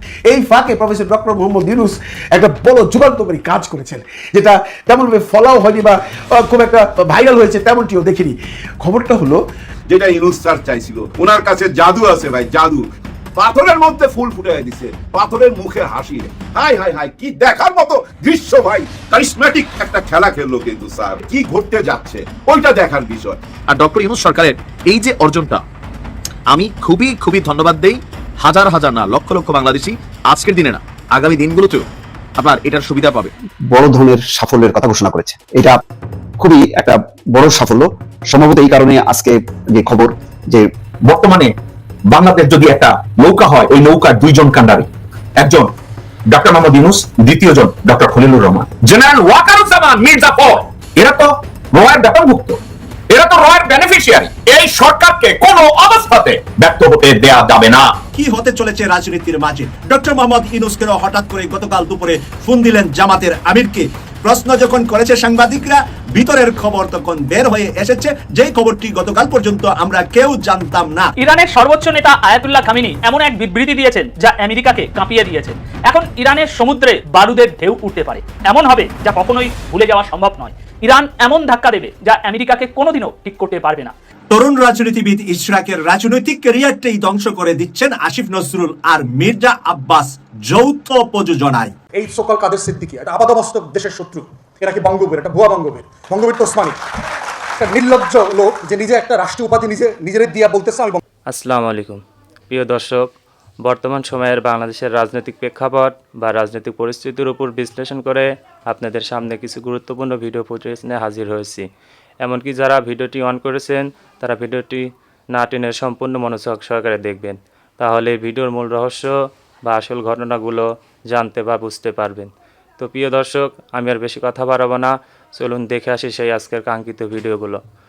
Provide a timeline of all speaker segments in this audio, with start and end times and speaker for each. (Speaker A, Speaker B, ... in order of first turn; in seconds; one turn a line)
Speaker A: 0.3-9.4
Speaker B: 9.9-23.4
Speaker C: 23.7-25.6
Speaker C: 26.5-31.9
Speaker C: 32.4-33.3
Speaker D: 33.7-35.8
Speaker D: 36.4-40.7
Speaker E: 41.0-41.5
Speaker E: 42.1-45.7
Speaker E: 46.3-57.9
Speaker F: 58.1-71.1
Speaker G: 71.2-83.9
Speaker F: 84.3-91.7
Speaker H: 91.9-96.8
Speaker H: 97.6-101.0
Speaker I: 101.3-103.1
Speaker I: 103.6-111.7
Speaker I: 112.2-119.1
Speaker I: 119.6-127.6